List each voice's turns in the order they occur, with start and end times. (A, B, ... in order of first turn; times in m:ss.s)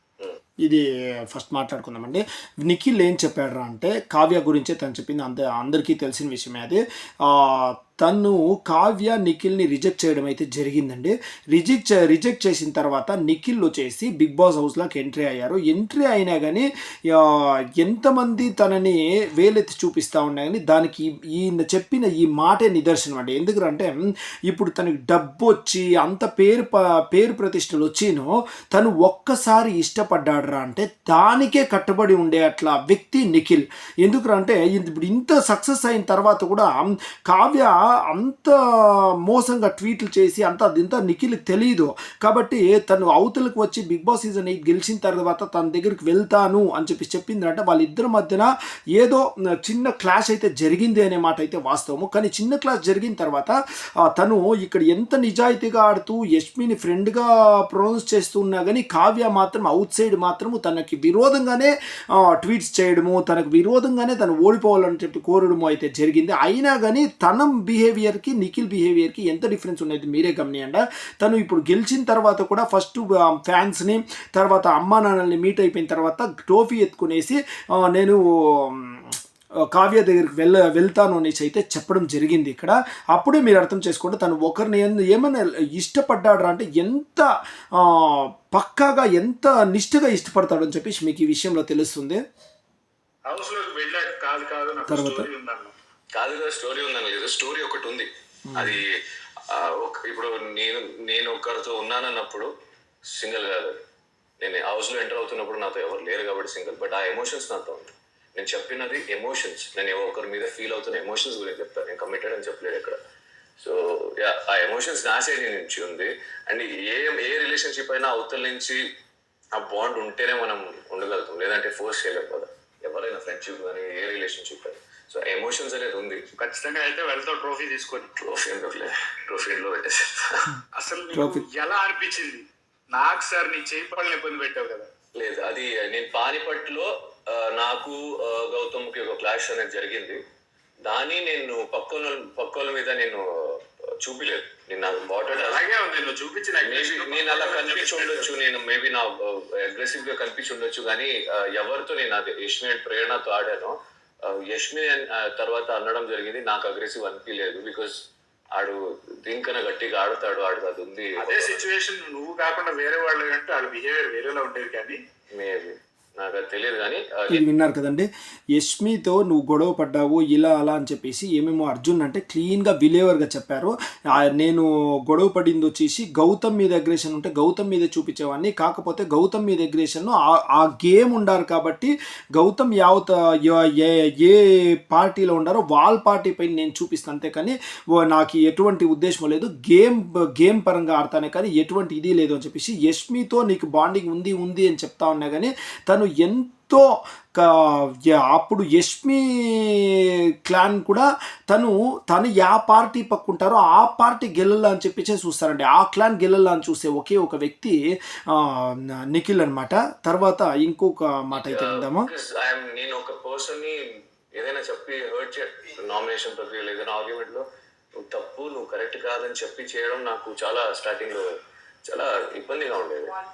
0:00.6-0:23.9 A
0:24.5-1:19.2 A
1:19.7-1:27.3 A
1:27.8-1:32.2 A
1:33.3-1:35.7 B
1:34.9-1:35.3 A
1:36.1-1:38.8 C
1:38.5-1:38.8 A
1:39.5-1:42.5 C
1:43.1-1:43.8 C
1:44.4-1:53.0 C
1:53.6-1:58.8 C
1:59.6-2:06.2 C
2:06.4-2:08.1 B
2:08.2-2:10.5 C
2:10.7-2:14.9 B
2:11.1-2:11.4 A
2:15.2-2:20.2 C
2:20.8-2:25.6 C
2:25.3-2:28.3 B
2:26.6-2:33.7 C
2:34.2-2:38.0 C
2:38.5-2:41.7 C
2:41.2-2:45.0 B
2:45.3-2:47.4 C
2:47.3-3:16.8 A
3:17.4-3:27.8 A
3:28.3-3:32.1 A
3:31.3-3:33.8 C
3:34.4-3:37.4 C
3:38.0-3:41.3 C
3:41.9-3:43.1 C